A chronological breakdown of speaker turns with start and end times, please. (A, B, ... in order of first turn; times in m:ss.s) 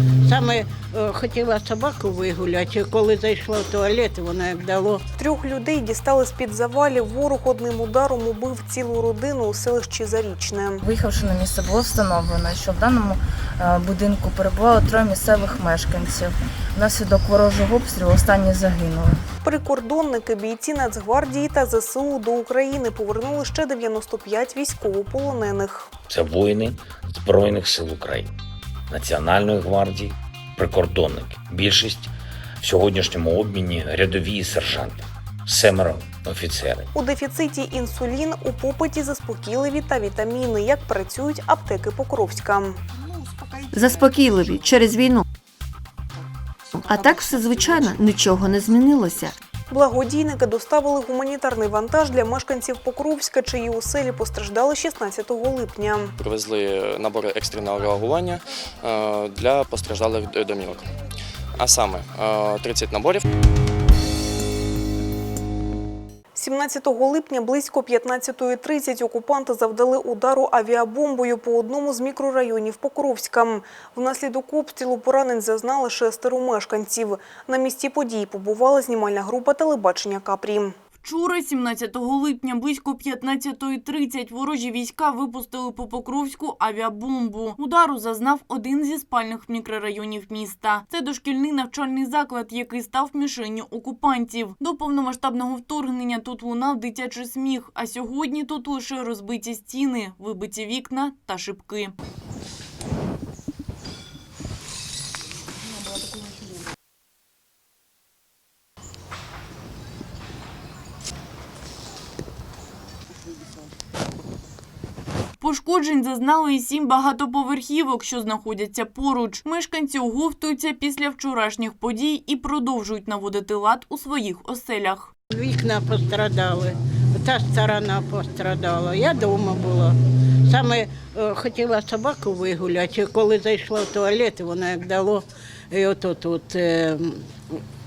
0:00.2-0:05.0 A
0:05.2-0:10.8 B
0:10.8-0:19.2 C
0:19.4-0:25.9 B
0:26.1-0:28.3 D
0:28.9-0:36.9 D
0:36.9-0:42.8 B
0:43.7-0:45.2 E
0:46.8-0:49.4 E
0:49.7-0:56.1 B
0:56.2-1:00.8 F
1:01.6-1:03.2 F
1:06.3-1:20.8 B
1:21.0-1:41.9 G
1:55.4-2:05.1 G
2:05.3-2:10.0 A
2:10.5-2:17.2 A